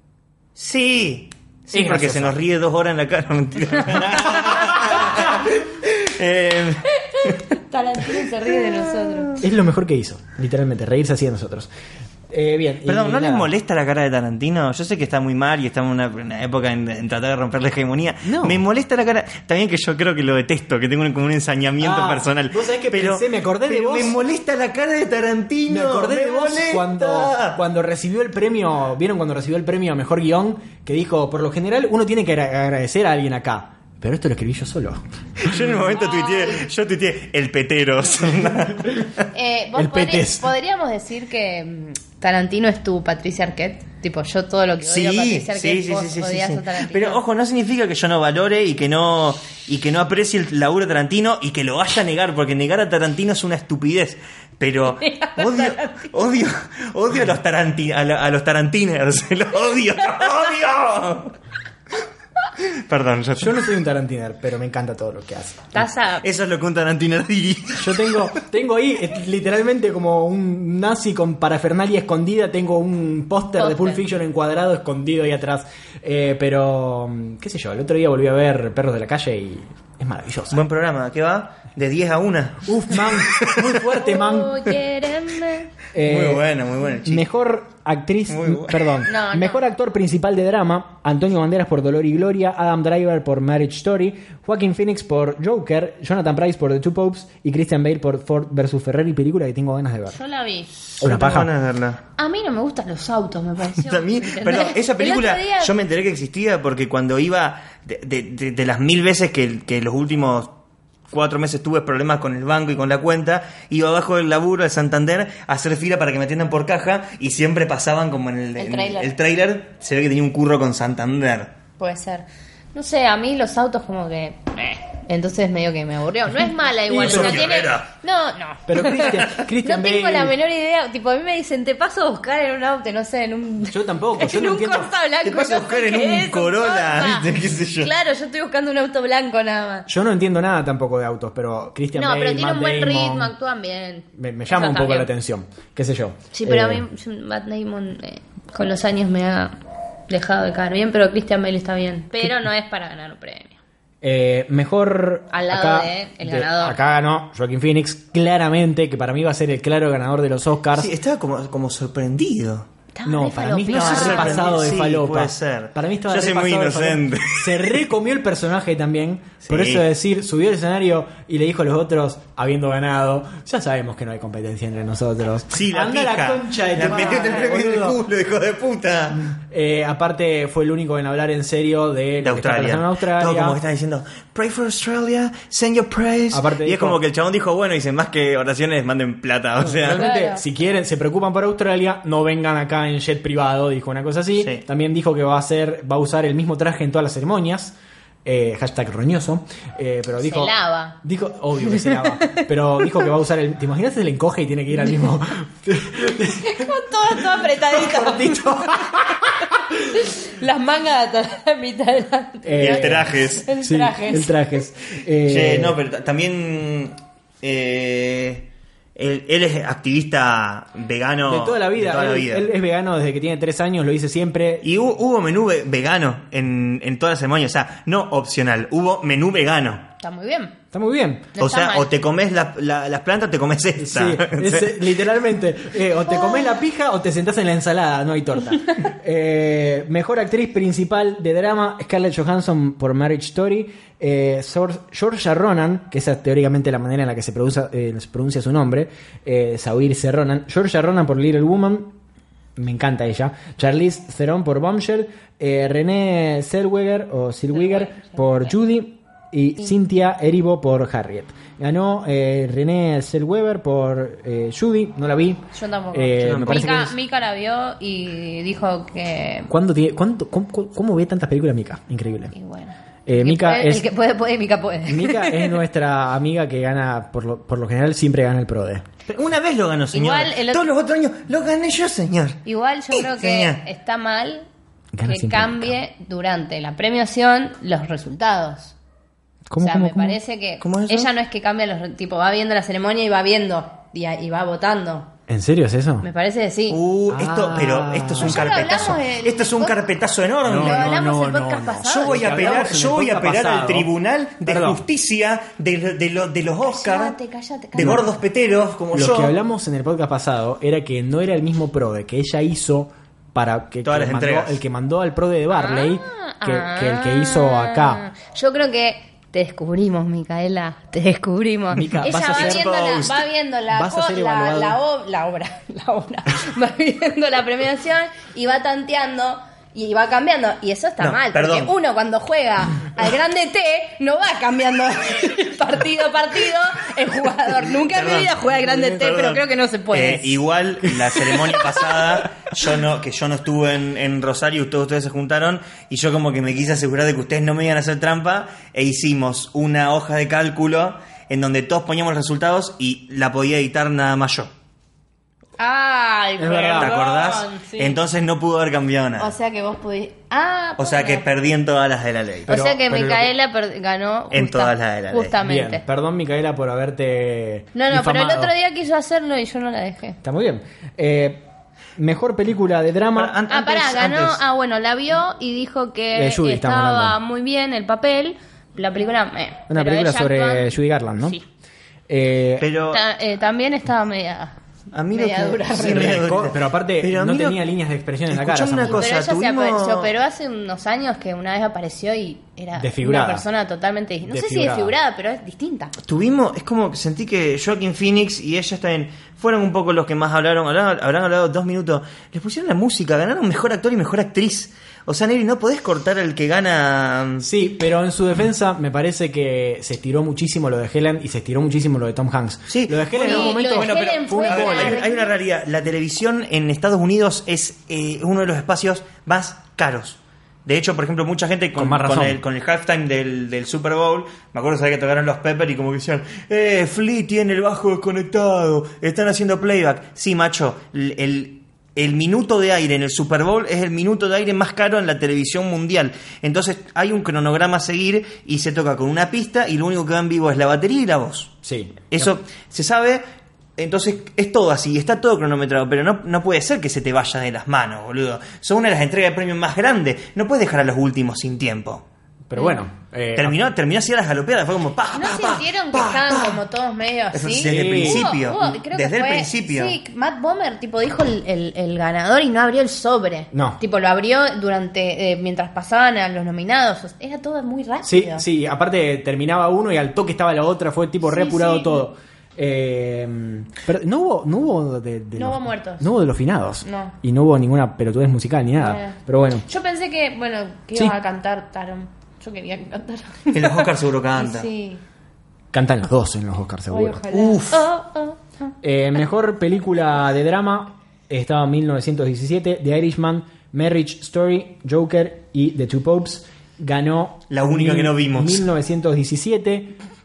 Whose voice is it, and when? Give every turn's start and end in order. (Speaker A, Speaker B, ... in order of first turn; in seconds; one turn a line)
Speaker A: 0.6-7.4
Speaker B: 1.7-2.4
Speaker B: 4.9-5.2
Speaker C: 7.0-9.4
Speaker B: 9.4-11.7
Speaker B: 12.3-13.5
Speaker A: 12.8-27.6
Speaker B: 18.2-18.6
Speaker B: 21.8-24.2
Speaker B: 25.7-35.7
Speaker A: 35.4-39.2
Speaker C: 35.9-36.6
Speaker C: 39.3-47.2
Speaker B: 39.7-40.5
Speaker A: 44.8-61.3
Speaker C: 55.0-56.1
Speaker A: 62.6-63.7
Speaker B: 63.4-65.8
Speaker C: 65.7-66.2
Speaker A: 66.2-68.3
Speaker B: 67.8-80.6
Speaker C: 73.6-74.0
Speaker A: 80.5-83.7
Speaker B: 82.7-84.6
Speaker C: 84.0-85.7
Speaker B: 85.9-86.4
Speaker A: 86.0-87.3
Speaker B: 87.0-100.2
Speaker A: 88.3-89.0
Speaker C: 89.0-89.6
Speaker C: 100.1-100.7
Speaker A: 101.0-102.0
Speaker B: 101.0-101.5
Speaker C: 102.2-105.7
Speaker A: 103.7-110.5
Speaker A: 111.1-121.5
Speaker C: 118.6-119.1
Speaker C: 121.8-139.9
Speaker B: 126.9-127.5
Speaker A: 126.9-127.9
Speaker B: 128.7-130.3
Speaker B: 133.7-134.9
Speaker A: 135.2-137.9
Speaker B: 139.9-143.3
Speaker C: 141.9-145.1
Speaker B: 144.1-146.8
Speaker C: 146.3-149.5
Speaker C: 150.1-153.6
Speaker B: 154.0-160.9
Speaker C: 155.3-156.8
Speaker A: 160.8-162.7
Speaker C: 162.9-164.7
Speaker B: 163.0-178.0
Speaker A: 163.7-167.8
Speaker A: 169.4-169.8
Speaker A: 175.5-179.3
Speaker B: 179.1-183.6
Speaker A: 182.2-190.1
Speaker B: 186.3-187.0
Speaker B: 189.6-209.5
Speaker C: 189.9-190.4
Speaker A: 194.3-194.6
Speaker C: 200.2-200.9
Speaker C: 206.2-209.0
Speaker C: 209.8-214.3
Speaker B: 212.4-215.8
Speaker A: 212.6-213.4
Speaker A: 215.2-222.5
Speaker B: 221.2-224.7
Speaker A: 224.6-229.9
Speaker C: 230.0-230.6
Speaker B: 230.7-231.3
Speaker C: 231.3-231.9
Speaker A: 231.4-234.9
Speaker B: 233.8-251.9
Speaker B: 252.6-266.9
Speaker C: 257.5-258.5
Speaker C: 265.5-269.5
Speaker A: 266.2-266.8
Speaker B: 269.5-272.3
Speaker C: 272.3-275.6
Speaker B: 273.1-273.8
Speaker B: 274.9-278.9
Speaker A: 279.1-283.6
Speaker C: 279.9-280.6
Speaker C: 282.4-284.5
Speaker B: 284.9-285.8
Speaker C: 285.0-288.7
Speaker B: 289.5-290.2
Speaker C: 289.6-295.1
Speaker A: 290.6-291.1
Speaker B: 295.3-296.1
Speaker C: 296.0-296.8
Speaker A: 296.7-300.9
Speaker B: 297.1-298.5
Speaker C: 298.2-299.8
Speaker B: 300.4-303.9
Speaker C: 300.6-302.5
Speaker A: 301.8-307.2
Speaker B: 304.4-304.8
Speaker C: 306.6-308.1
Speaker A: 307.7-309.3
Speaker B: 307.8-308.0
Speaker B: 308.9-318.0
Speaker A: 313.8-314.6
Speaker C: 315.5-340.4
Speaker B: 321.7-322.6
Speaker A: 322.1-323.2
Speaker B: 323.7-324.8
Speaker A: 331.0-331.7
Speaker A: 337.6-354.5
Speaker B: 340.9-341.4
Speaker C: 355.6-358.0
Speaker B: 356.4-356.9
Speaker A: 356.8-359.3
Speaker C: 359.2-361.2
Speaker A: 360.8-362.5
Speaker B: 362.5-363.3
Speaker C: 362.5-365.8
Speaker A: 364.3-365.4
Speaker B: 365.4-368.5
Speaker C: 367.7-370.2
Speaker B: 370.2-371.4
Speaker B: 372.0-373.4
Speaker A: 373.1-374.4
Speaker C: 373.5-380.7
Speaker B: 376.1-377.1
Speaker B: 379.7-381.4
Speaker B: 382.1-382.7
Speaker A: 382.6-383.0
Speaker C: 382.9-384.5
Speaker A: 384.9-387.6
Speaker C: 385.1-386.2
Speaker B: 385.7-389.1
Speaker A: 388.3-390.1
Speaker C: 388.9-395.9
Speaker B: 392.8-393.4
Speaker B: 394.2-394.9
Speaker A: 396.0-407.4
Speaker B: 407.4-415.0
Speaker A: 412.7-441.5
Speaker C: 413.1-415.3
Speaker B: 421.8-422.4
Speaker B: 441.6-442.3
Speaker A: 442.1-443.2
Speaker A: 443.8-452.0
Speaker B: 452.5-453.7
Speaker C: 452.6-452.8
Speaker A: 453.4-456.6
Speaker C: 455.1-468.4
Speaker A: 457.3-460.0
Speaker B: 457.7-458.3
Speaker B: 463.5-463.8
Speaker B: 468.0-479.6
Speaker C: 471.2-472.0
Speaker C: 475.4-476.1
Speaker C: 476.8-477.1
Speaker C: 478.8-485.0
Speaker A: 483.5-484.7
Speaker B: 485.7-487.2
Speaker C: 486.9-488.7
Speaker A: 487.3-487.9
Speaker B: 488.8-499.9
Speaker A: 497.5-498.6